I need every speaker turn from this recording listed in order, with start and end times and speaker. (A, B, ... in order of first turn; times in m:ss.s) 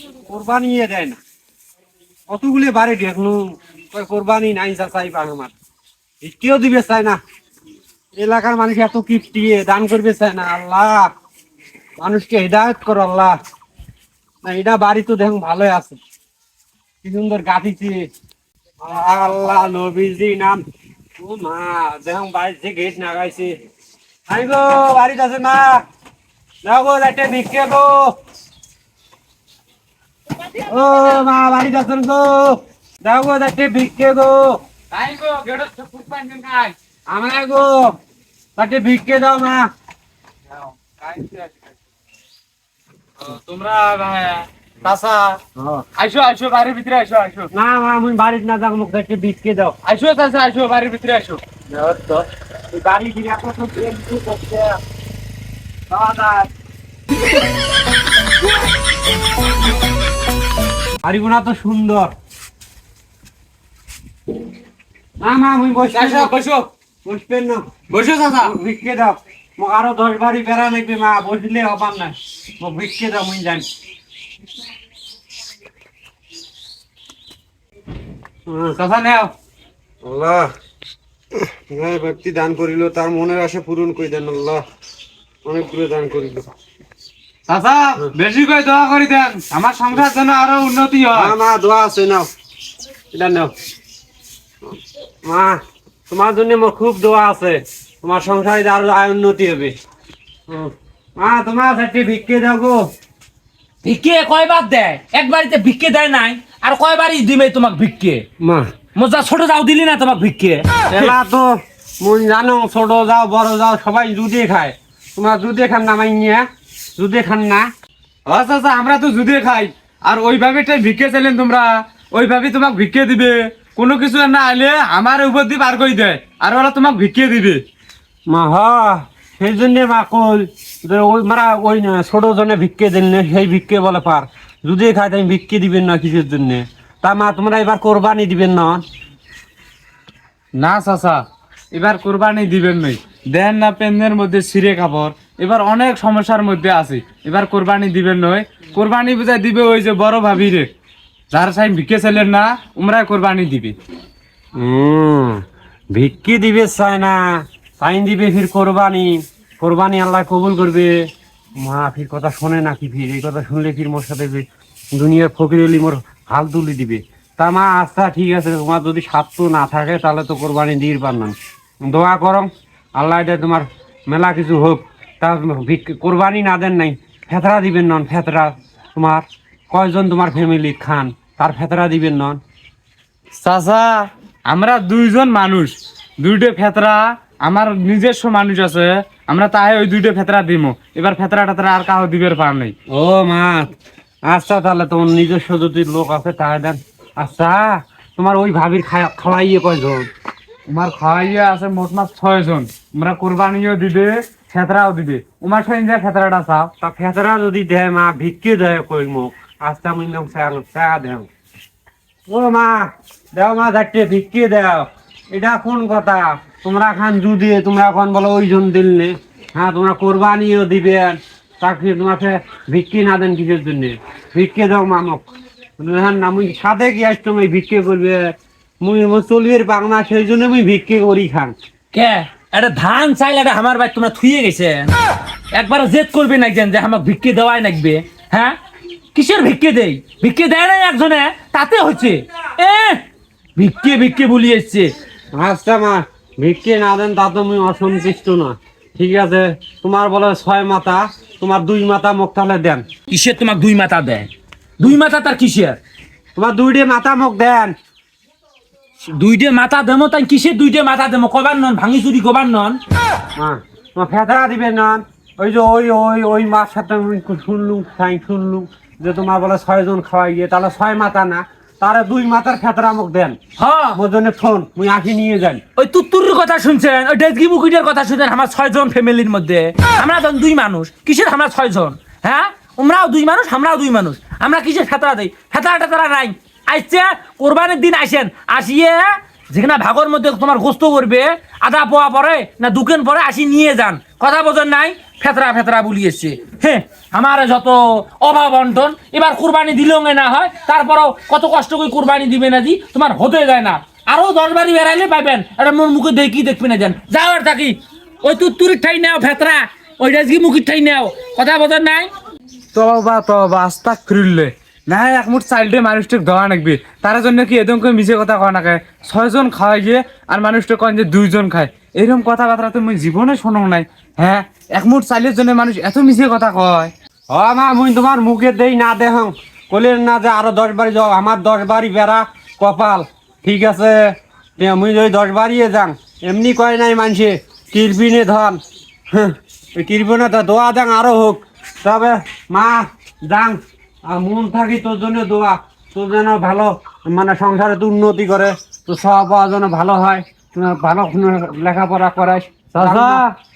0:00.3-0:01.2 A
0:02.3-0:05.5 A
0:06.2-0:07.2 A
0:08.2-0:11.1 A
0:12.0-0:13.4 A
0:14.4-0:16.0 A
0:17.0-0:18.1 A
0:18.8-0:20.6 A
0:21.2-0:23.5 A
0:24.3-0:25.8 A
0:26.6-0:28.1 A
0:30.6-0:34.6 A
0:34.9-0:36.8 B
0:37.1-0:37.9 A
0:38.6-0:39.7 A
0:40.5-0:41.7 B
0:43.2-0:45.4 B
0:45.6-0:45.8 A
0:46.0-0:47.5 B
0:47.5-0:49.8 A
0:49.8-0:51.4 B
0:51.7-0:54.8 A
0:55.9-0:56.5 A
1:01.0-1:02.1 A
1:05.2-1:06.3 A
1:05.9-1:06.7 B
1:07.0-1:13.7 A
1:07.9-1:08.5 B
1:18.5-1:18.8 A
1:18.8-1:19.3 B
1:20.0-1:20.5 A
1:21.5-1:24.6 A
1:25.4-1:26.5 A
1:27.5-1:31.3 B
1:31.1-1:32.3 A
1:33.1-1:33.5 A
1:35.2-1:39.7 A
1:40.5-1:42.8 A
1:43.8-1:48.2 C
1:48.4-1:48.7 A
1:49.0-1:50.8 C
1:50.9-1:56.4 A
1:57.0-1:57.7 A
1:58.3-2:07.6 B
2:08.3-2:18.8 A
2:20.6-2:30.7 B
2:31.3-2:33.8 B
2:34.6-2:40.9 A
2:41.6-3:02.4 A
3:03.4-3:12.7 B
3:12.9-3:13.7 A
3:14.2-3:20.1 A
3:20.7-3:26.7 B
3:26.8-3:31.3 A
3:32.3-3:45.3 A
3:45.8-3:51.6 A
3:51.9-3:54.9 C
3:55.5-3:58.6 C
3:59.1-4:03.0 C
4:03.6-4:04.9 C
4:05.3-4:12.8 A
4:13.1-4:15.8 C
4:16.4-4:17.8 A
4:19.0-4:22.8 C
4:23.4-4:33.4 A
4:33.6-4:34.0 C
4:33.9-4:35.6 A
4:35.8-5:12.1 C
5:12.7-5:26.9 B
5:27.3-5:38.6 A
5:39.1-5:53.2 A
5:52.8-5:53.3 B